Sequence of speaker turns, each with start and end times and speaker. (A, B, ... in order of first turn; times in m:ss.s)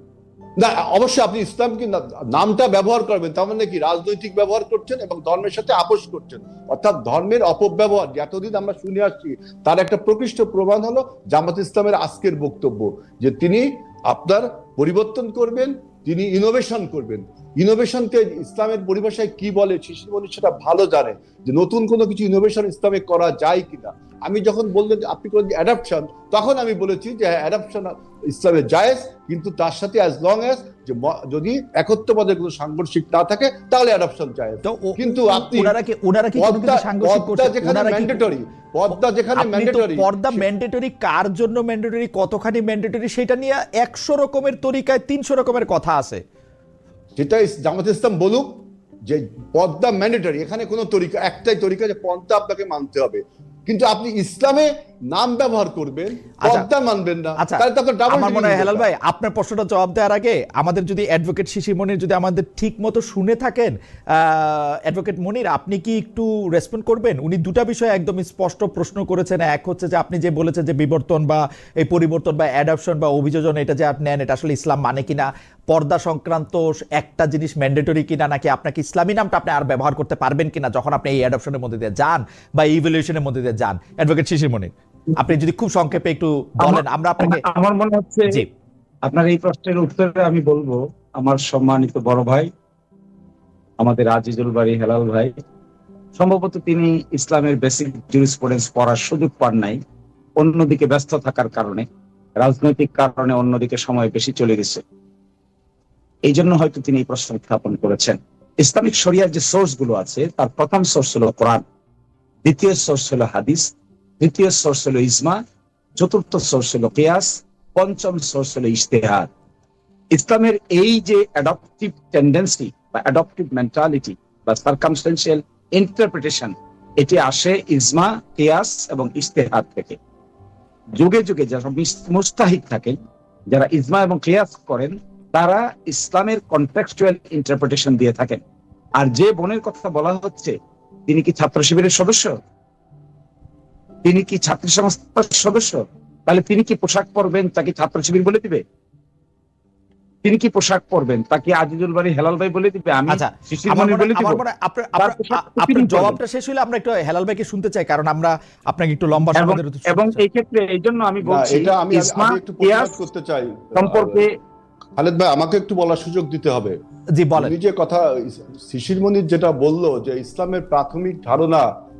0:00.6-0:35.8 A
0:34.6-0:38.2 B
0:36.4-0:40.4 A
0:39.3-0:46.2 B
0:47.2-0:58.8 A
0:57.4-1:27.4 B
1:26.6-1:28.4 C
1:29.0-1:32.5 C
1:33.8-1:35.3 C
1:36.2-1:39.8 C
1:40.4-1:41.8 C
1:42.4-1:44.8 C
1:46.2-1:51.6 C
1:52.4-1:55.4 C
1:56.0-1:59.3 C
2:00.1-2:10.0 C
2:11.0-2:13.0 C
2:13.5-2:18.4 C
2:19.0-2:20.5 C
2:21.1-2:22.3 C
2:24.0-2:28.6 C
2:30.2-2:34.4 C
2:33.1-2:40.2 B
2:35.0-2:36.2 C
2:39.3-2:43.0 C
2:41.2-2:44.2 A
2:43.7-2:44.3 C
2:45.0-2:46.8 A
2:47.2-2:47.5 B
2:47.4-2:51.6 A